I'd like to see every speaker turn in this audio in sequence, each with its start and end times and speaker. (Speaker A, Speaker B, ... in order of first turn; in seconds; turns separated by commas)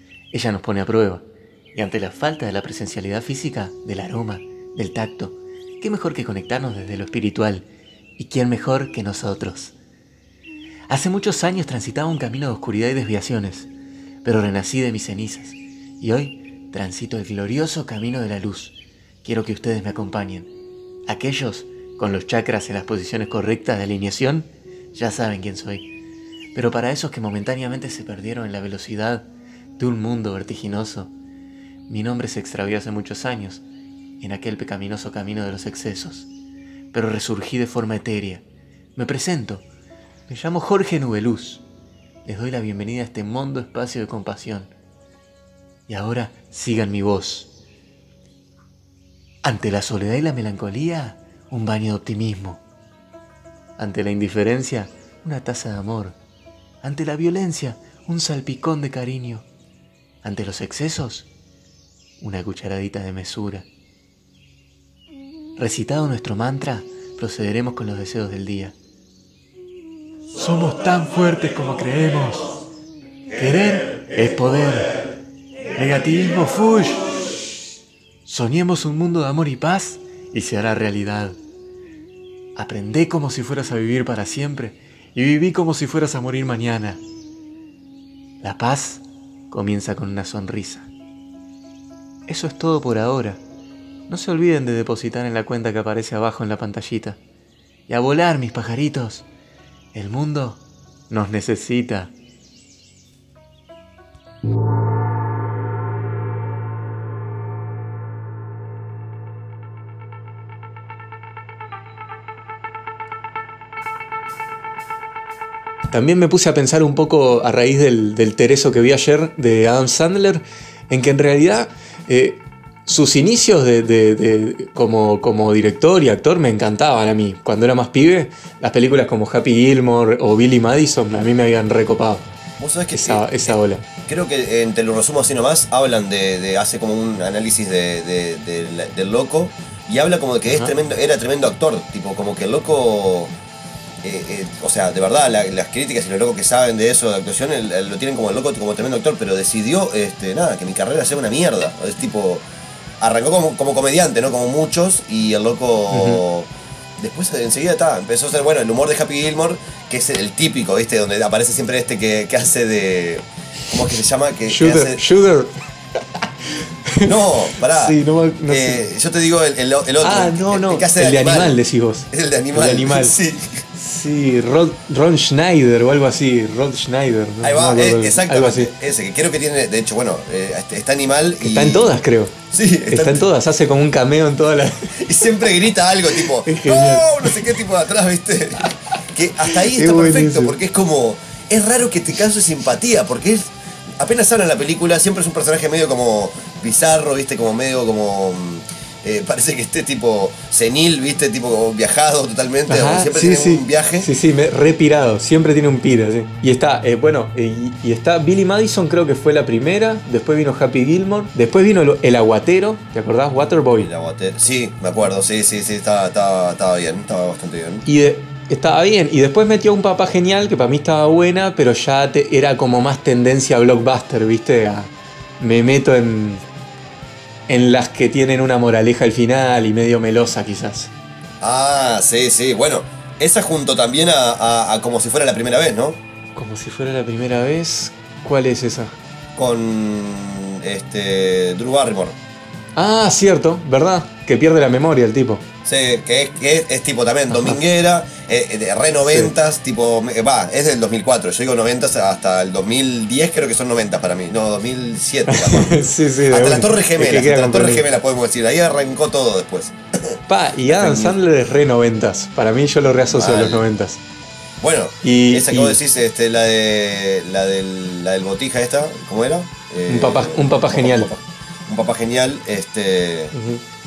Speaker A: 0.3-7.7, Speaker A: 8.2-9.7, Speaker A: 10.9-13.7, Speaker A: 14.2-20.5, Speaker A: 21.1-25.9, Speaker A: 26.6-29.3, Speaker A: 29.8-31.1, Speaker A: 31.9-33.6, Speaker A: 34.2-36.3, Speaker A: 36.9-38.4, Speaker A: 39.0-39.6, Speaker A: 40.3-41.6, Speaker A: 42.2-44.7, Speaker A: 45.9-47.5, Speaker A: 49.4-52.6, Speaker A: 53.8-56.2, Speaker A: 56.8-59.5, Speaker A: 60.2-61.3, Speaker A: 62.2-63.7, Speaker A: 65.6-68.8, Speaker A: 70.3-72.6, Speaker A: 73.3-75.0, Speaker A: 75.8-77.2, Speaker A: 78.3-81.4, Speaker A: 82.6-87.0, Speaker A: 88.4-90.9, Speaker A: 92.3-93.4, Speaker A: 94.1-97.2, Speaker A: 97.9-99.3, Speaker A: 99.9-102.1, Speaker A: 115.9-132.3, Speaker B: 132.6-143.3, Speaker A: 132.9-133.8, Speaker A: 140.5-140.7, Speaker B: 144.0-152.4, Speaker B: 153.0-165.0, Speaker A: 155.9-156.2, Speaker A: 164.5-165.5, Speaker A: 166.6-168.8, Speaker B: 167.0-167.9, Speaker B: 168.5-171.6, Speaker A: 170.0-173.2, Speaker B: 172.1-173.6, Speaker A: 173.8-178.7, Speaker B: 177.4-181.9, Speaker A: 181.4-182.4, Speaker B: 182.5-183.3, Speaker A: 182.9-184.9, Speaker B: 185.0-204.1, Speaker A: 186.2-187.4, Speaker A: 189.5-190.6, Speaker A: 202.7-213.9, Speaker B: 213.8-217.8, Speaker A: 217.8-226.4, Speaker A: 227.5-230.9, Speaker B: 231.4-236.0, Speaker A: 236.4-238.9, Speaker B: 239.4-242.2, Speaker A: 242.8-245.4, Speaker B: 245.7-255.8, Speaker A: 247.3-247.6, Speaker A: 249.0-249.3, Speaker A: 255.3-257.9, Speaker B: 256.3-259.8, Speaker A: 260.3-264.0, Speaker B: 260.7-261.2, Speaker B: 263.1-263.6, Speaker B: 264.6-273.3, Speaker A: 265.0-265.8, Speaker A: 269.9-271.1, Speaker A: 273.3-273.6